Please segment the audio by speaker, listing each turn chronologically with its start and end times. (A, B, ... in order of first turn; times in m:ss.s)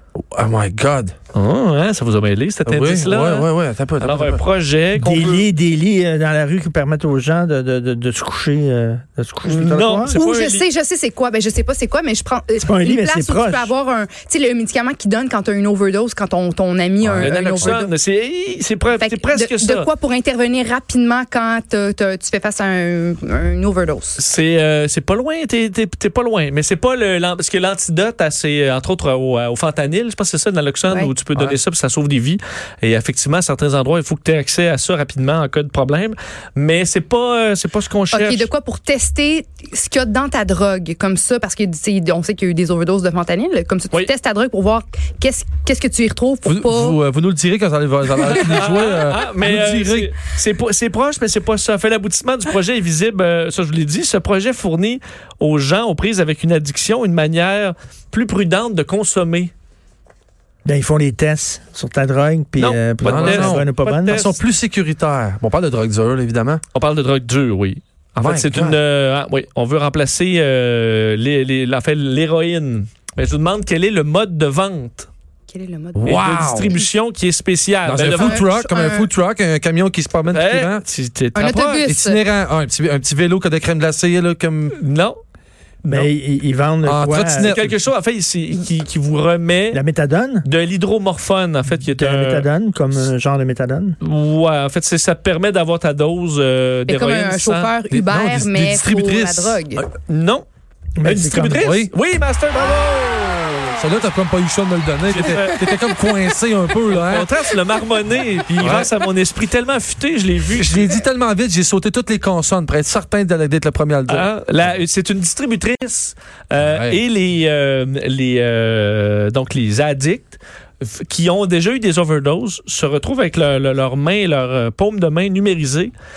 0:00.2-0:01.1 A
0:01.3-0:03.5 B
0:02.6-0:04.4 A
0:04.0-0:05.5 B
0:05.0-0:10.2 C
0:09.4-0:10.6 B
0:10.1-0:17.9 D
0:12.6-0:13.7 C
0:17.0-0:17.8 A
0:17.1-0:19.9 B
0:18.9-0:24.2 D
0:24.2-0:38.5 B
0:38.1-0:47.0 D
0:46.4-0:50.1 A
0:48.2-0:59.5 B
1:00.6-1:04.3 C
1:02.6-1:04.4 B
1:03.0-1:06.6 A
1:06.7-1:15.1 B
1:08.2-1:08.8 A
1:15.5-1:16.8 D
1:15.9-1:16.8 A
1:16.0-1:18.4 B
1:17.8-1:20.8 A
1:18.0-1:19.1 D
1:20.3-1:21.8 B
1:21.3-1:22.2 D
1:21.8-1:24.8 A
1:24.8-1:25.2 B
1:25.8-1:26.1 B
1:25.9-1:27.6 C
1:26.8-1:27.7 A
1:27.4-1:29.8 B
1:29.7-1:30.5 C
1:30.4-1:33.1 B
1:31.9-1:33.9 C
1:34.0-1:37.7 B
1:36.9-1:39.9 D
1:37.9-1:39.6 A
1:39.8-1:40.4 B
1:41.0-1:41.7 C
1:41.0-1:43.9 B
1:41.6-1:41.9 A
1:43.8-1:47.3 A
1:45.1-1:45.8 B
1:46.9-1:51.0 B
1:48.6-1:48.9 A
1:50.5-1:54.3 A
1:54.1-2:05.9 B
1:56.6-1:57.0 A